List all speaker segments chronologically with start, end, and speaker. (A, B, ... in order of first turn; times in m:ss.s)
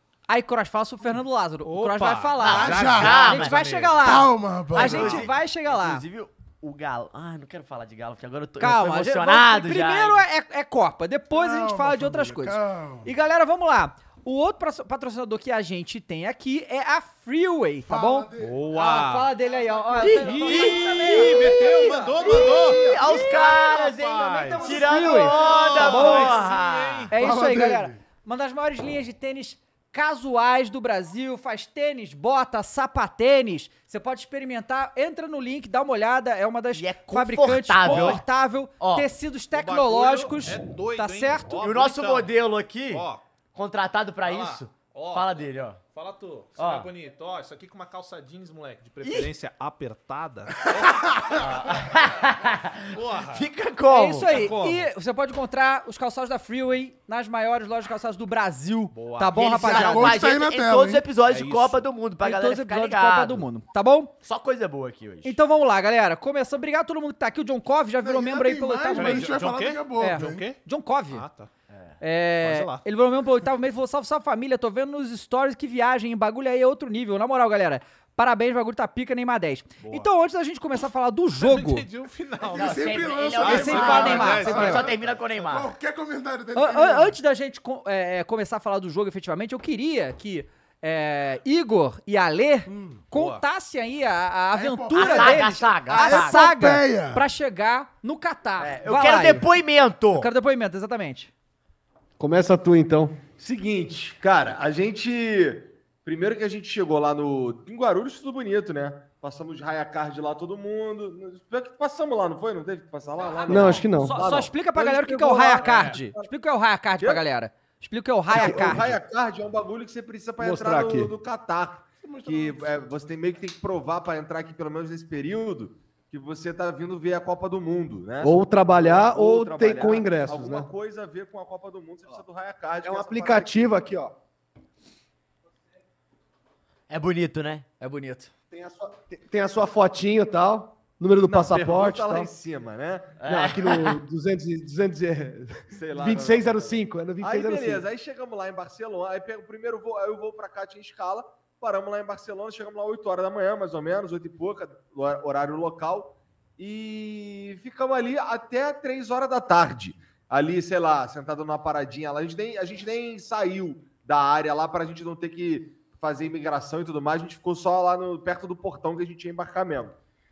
0:00.3-0:06.0 A
0:01.6-0:04.2 B
0:02.4-0:03.6 C
0:02.5-0:03.3 D
0:04.0-0:05.3 D
0:04.7-0:10.2 C
0:08.6-0:21.5 A
0:11.3-0:13.1 D
0:17.8-0:20.5 D
0:18.4-0:19.3 B
0:20.0-0:27.1 C
0:20.1-0:27.2 B
0:22.6-0:23.1 D
0:22.9-0:23.6 A
0:24.3-0:26.4 A
0:24.6-0:25.7 D
0:27.1-0:41.6 A
0:27.1-0:28.0 D
0:36.7-0:38.2 C
0:37.8-0:38.2 B
0:38.8-0:39.1 C
0:39.5-0:43.2 B
0:41.6-0:45.8 C
0:44.2-0:51.9 B
0:46.6-0:46.9 C
0:49.0-0:49.3 C
0:51.3-0:54.6 C
0:52.9-0:53.5 B
0:53.9-1:00.2 A
0:54.2-0:54.9 B
0:58.9-0:59.6 B
0:59.4-1:03.4 C
0:59.6-1:01.1 D
1:01.2-1:01.8 B
1:02.2-1:04.1 A
1:04.2-1:05.4 C
1:05.2-1:09.4 A
1:08.0-1:10.5 D
1:08.9-1:11.5 B
1:10.0-1:11.3 A
1:11.7-1:12.0 C
1:12.0-1:21.9 A
1:12.4-1:12.8 B
1:19.8-1:20.1 B
1:21.4-1:25.0 B
1:22.5-1:27.2 D
1:22.5-1:25.7 C
1:23.4-1:24.9 A
1:26.6-1:39.5 A
1:32.7-1:33.0 D
1:33.1-1:33.4 B
1:34.5-1:37.2 D
1:35.0-1:36.4 C
1:38.6-1:40.3 C
1:40.1-1:41.3 A
1:42.2-1:43.2 E
1:43.4-1:56.3 F
1:53.5-1:54.2 E
1:53.9-1:58.9 A
1:55.6-1:56.0 B
1:58.3-1:59.0 E
1:58.3-2:13.8 F
2:00.4-2:01.1 E
2:02.0-2:02.6 D
2:08.2-2:10.7 E
2:12.8-2:14.1 E
2:16.9-2:17.7 C
2:17.8-2:18.3 A
2:18.5-2:22.3 E
2:21.2-2:23.2 F
2:23.2-2:24.0 C
2:23.2-2:27.8 E
2:25.7-2:50.0 F